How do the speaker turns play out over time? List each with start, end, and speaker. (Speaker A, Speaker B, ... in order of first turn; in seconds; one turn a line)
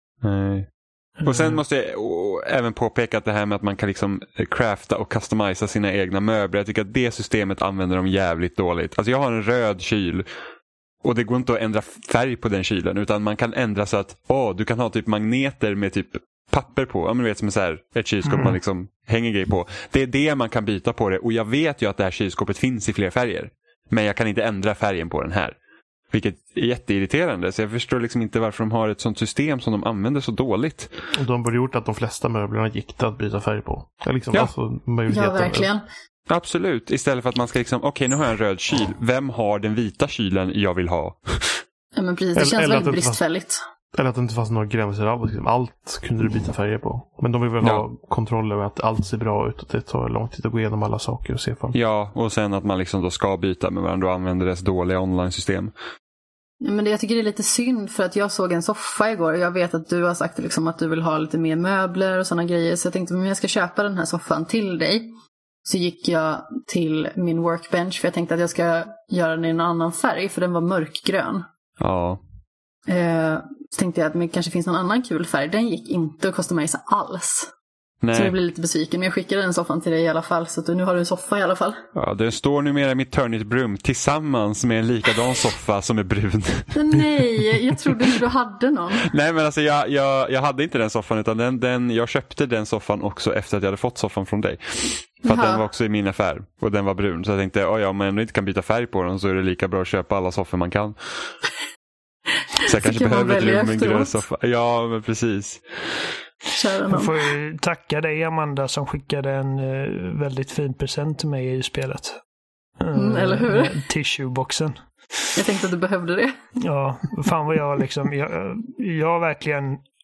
Speaker A: 0.2-10.3
Speaker B: 1.2-1.6
Speaker A: 11.0-25.6
Speaker B: 18.2-18.6
Speaker A: 26.1-30.9
Speaker C: 31.1-35.7
Speaker D: 35.1-35.8
Speaker A: 36.3-41.6
Speaker D: 42.0-43.6
Speaker C: 42.4-43.2
Speaker C: 43.9-51.8
Speaker A: 47.6-47.9
Speaker A: 51.7-55.7
Speaker D: 56.6-65.1
Speaker D: 65.7-71.5
Speaker A: 71.8-72.2
Speaker D: 72.9-77.5
Speaker A: 78.0-78.4
Speaker D: 78.1-81.8
Speaker A: 82.0-86.8
Speaker D: 86.7-89.1
Speaker A: 89.1-101.3
Speaker D: 95.2-95.6
Speaker D: 102.6-104.2
Speaker A: 102.7-106.1
Speaker D: 106.5-107.2
Speaker B: 106.9-112.2
Speaker B: 112.8-115.3
Speaker D: 113.0-113.7
Speaker D: 115.3-116.3
Speaker B: 116.6-119.8